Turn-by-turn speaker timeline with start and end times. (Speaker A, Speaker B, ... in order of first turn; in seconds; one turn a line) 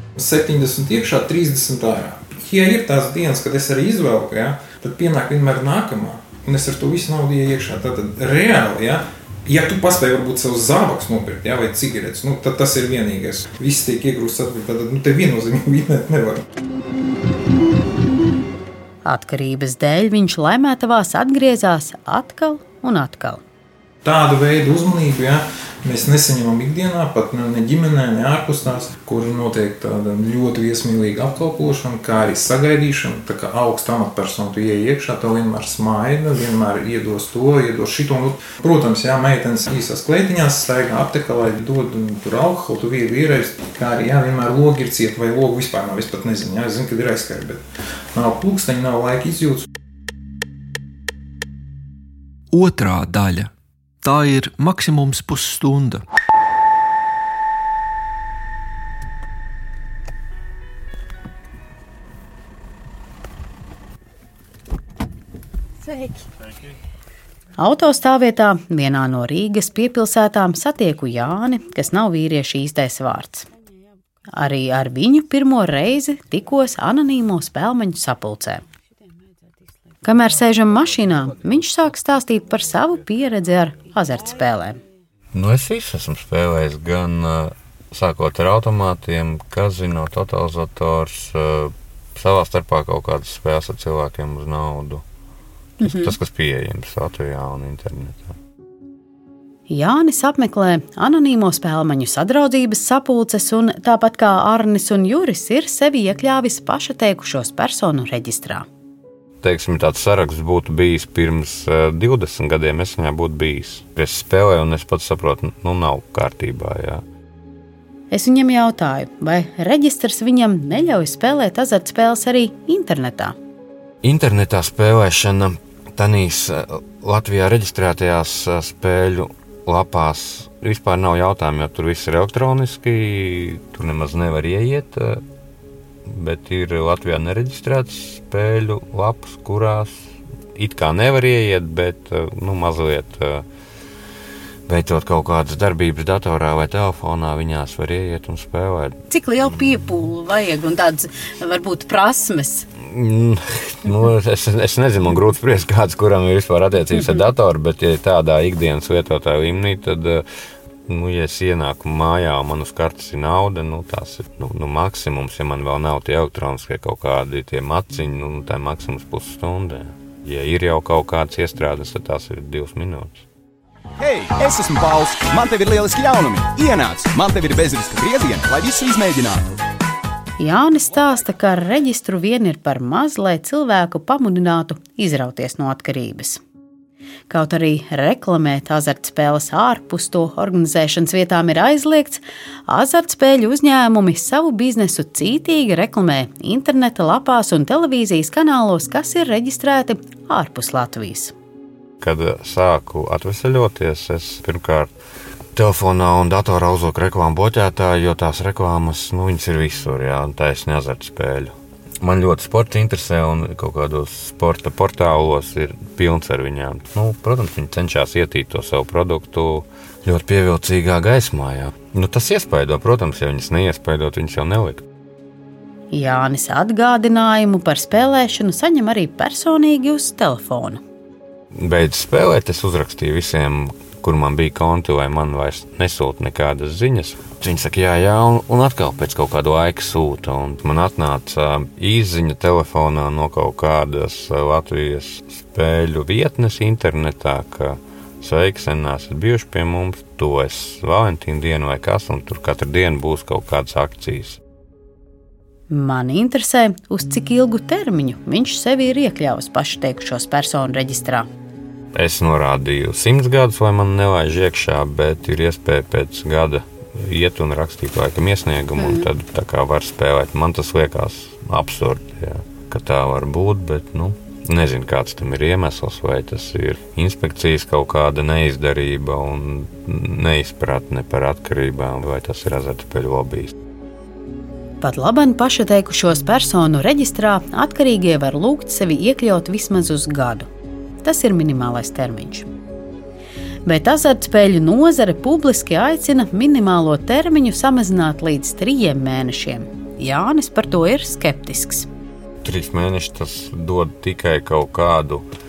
Speaker A: 0.2-16.4
Speaker B: 19.0-23.4
Speaker A: 24.0-49.7
Speaker C: 52.5-53.5
Speaker C: 54.0-56.0
Speaker B: 67.6-73.5
Speaker B: 74.3-78.6
Speaker B: 80.0-84.8
Speaker D: 85.3-95.0
Speaker D: 95.8-98.3
Speaker B: 95.8-96.1
Speaker B: 99.7-108.7
Speaker D: 109.4-117.0
Speaker B: 118.1-123.3
Speaker D: 124.0-135.2
Speaker D: 136.0-143.4
Speaker D: 144.7-149.0
Speaker B: 149.1-152.7
Speaker D: 152.8-160.2
Speaker D: 160.9-173.2
Speaker E: 174.0-179.6
Speaker B: 180.4-186.4
Speaker B: 187.3-201.3
Speaker D: 202.0-204.9
Speaker D: 205.5-224.8
Speaker B: 225.9-230.8
Speaker D: 231.5-254.4
Speaker B: 255.7-261.3
Speaker D: 261.9-283.5
Speaker B: 268.8-269.0
Speaker B: 284.8-290.5
Speaker B: 291.0-292.5
Speaker B: 293.6-301.9
Speaker D: 302.4-305.3